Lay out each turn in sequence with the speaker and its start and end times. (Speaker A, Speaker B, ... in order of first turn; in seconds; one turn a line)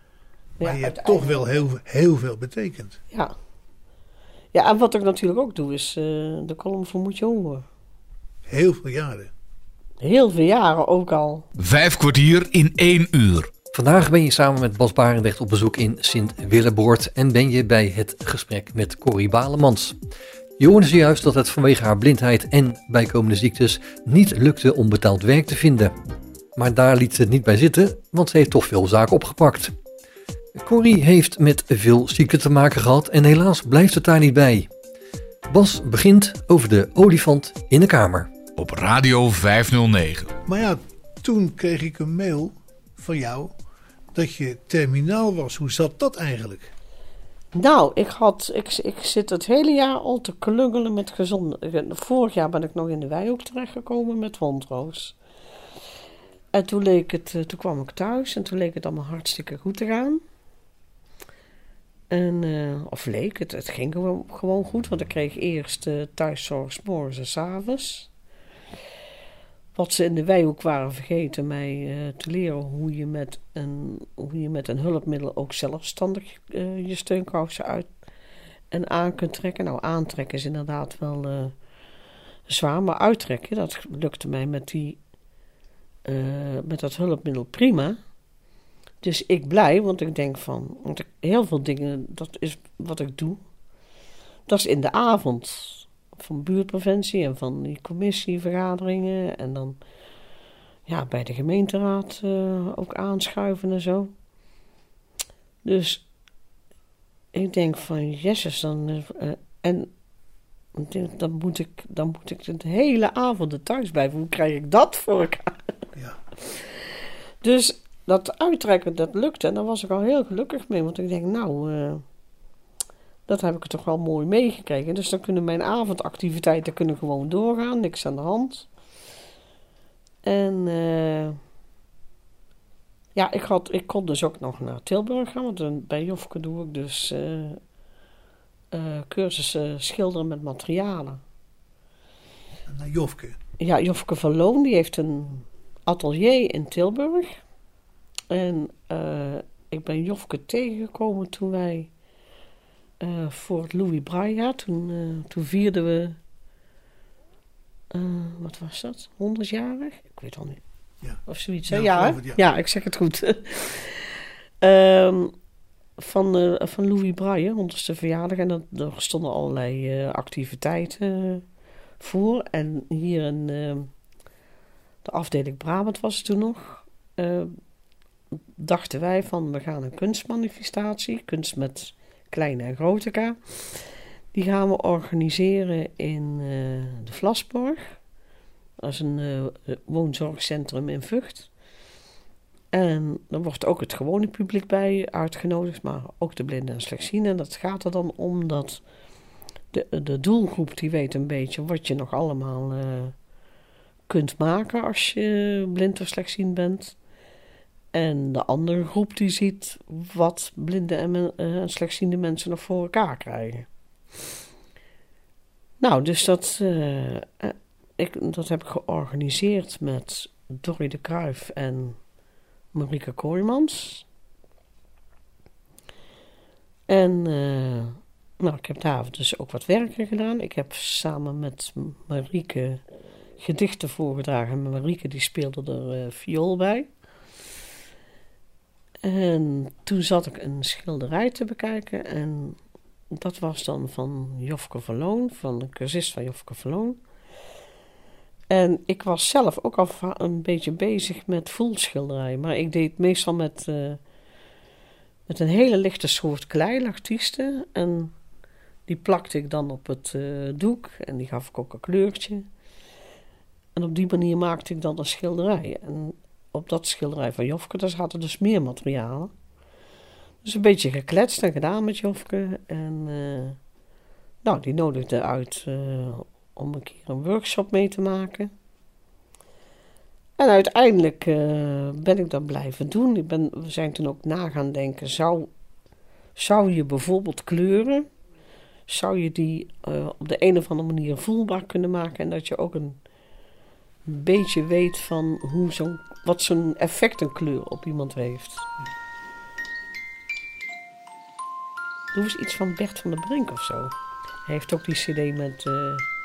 Speaker A: 0.6-1.5
Speaker B: 0.6-3.0
Speaker A: 4.5-7.6
Speaker B: 8.5-9.3
Speaker A: 10.0-11.4
Speaker C: 11.6-13.5
Speaker D: 13.7-20.0
Speaker D: 20.6-25.9
Speaker D: 26.6-29.7
Speaker D: 30.6-34.7
Speaker D: 35.5-38.3
Speaker C: 38.5-40.3
Speaker B: 40.5-43.5
Speaker B: 44.1-46.7
Speaker A: 47.5-55.1
Speaker A: 56.5-60.2
Speaker A: 62.1-68.1
Speaker A: 69.7-77.9
Speaker A: 78.7-81.5
Speaker A: 82.5-85.0
Speaker A: 86.0-88.0
Speaker A: 89.0-93.4
Speaker A: 94.5-99.8
Speaker A: 100.9-104.1
Speaker A: 105.6-106.0
Speaker A: 107.3-109.9
Speaker A: 110.7-115.6
Speaker A: 117.4-122.0
Speaker A: 123.3-128.7
Speaker A: 130.2-131.4
Speaker A: 133.1-137.6
Speaker A: 138.7-141.2
Speaker B: 142.7-143.3
Speaker A: 143.6-147.4
Speaker A: 148.3-151.9
Speaker A: 153.0-156.2
Speaker A: 157.9-160.6
Speaker B: 161.0-162.4
Speaker A: 161.2-165.3
Speaker A: 166.0-171.4
Speaker A: 172.0-173.9
Speaker A: 175.0-177.6
Speaker A: 178.6-188.0
Speaker A: 188.8-191.5
Speaker A: 192.7-198.8
Speaker A: 199.7-203.1
Speaker A: 204.1-206.9
Speaker A: 207.9-213.7
Speaker A: 215.8-222.0
Speaker A: 222.7-224.0
Speaker A: 226.9-232.8
Speaker A: 233.4-236.9
Speaker A: 239.0-242.6
Speaker A: 243.1-247.0
Speaker A: 248.5-254.0
Speaker A: 255.3-258.1
Speaker A: 258.9-262.4
Speaker A: 263.8-269.3
Speaker A: 270.4-273.6
Speaker A: 274.4-278.5
Speaker A: 280.4-285.5
Speaker A: 286.4-288.1
Speaker A: 288.9-293.0
Speaker A: 294.1-298.6
Speaker A: 302.1-303.9
Speaker A: 304.4-306.1